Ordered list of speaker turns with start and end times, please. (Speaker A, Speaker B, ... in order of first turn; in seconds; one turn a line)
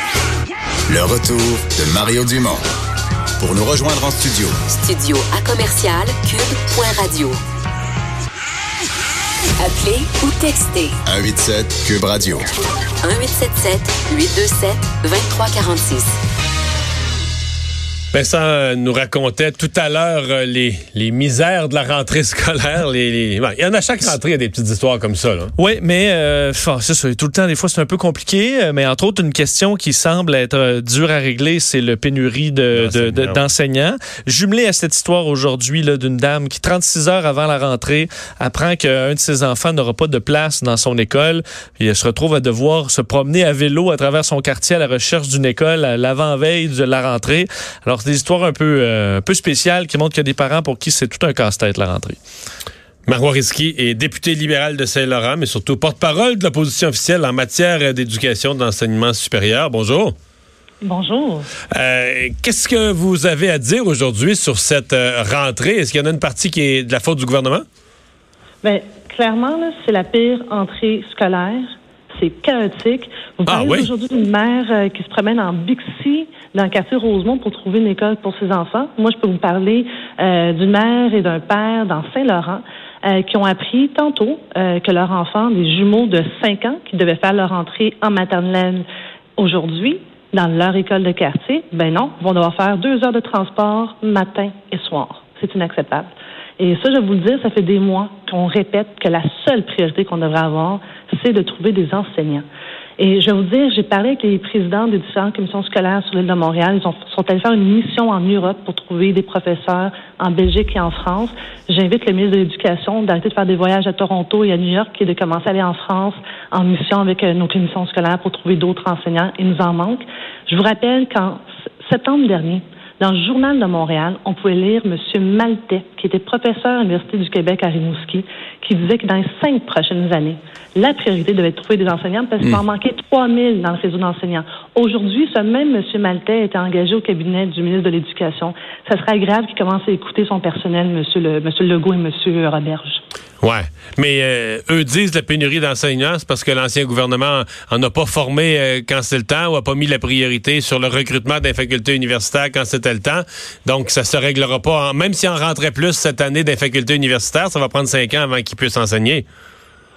Speaker A: 0.9-2.6
Speaker A: 3.4-4.6
Speaker B: 4.7-7.4
Speaker B: 9.6-11.0
Speaker A: 11.1-12.5
Speaker B: 13.0-16.2
Speaker C: 18.1-25.5
Speaker D: 25.6-52.2
Speaker C: 32.7-33.5
Speaker C: 53.1-60.1
Speaker E: 60.8-61.5
Speaker C: 61.7-67.6
Speaker E: 68.6-88.8
Speaker C: 73.5-73.9
Speaker E: 89.4-102.5
Speaker E: 103.0-143.0
Speaker C: 143.4-159.2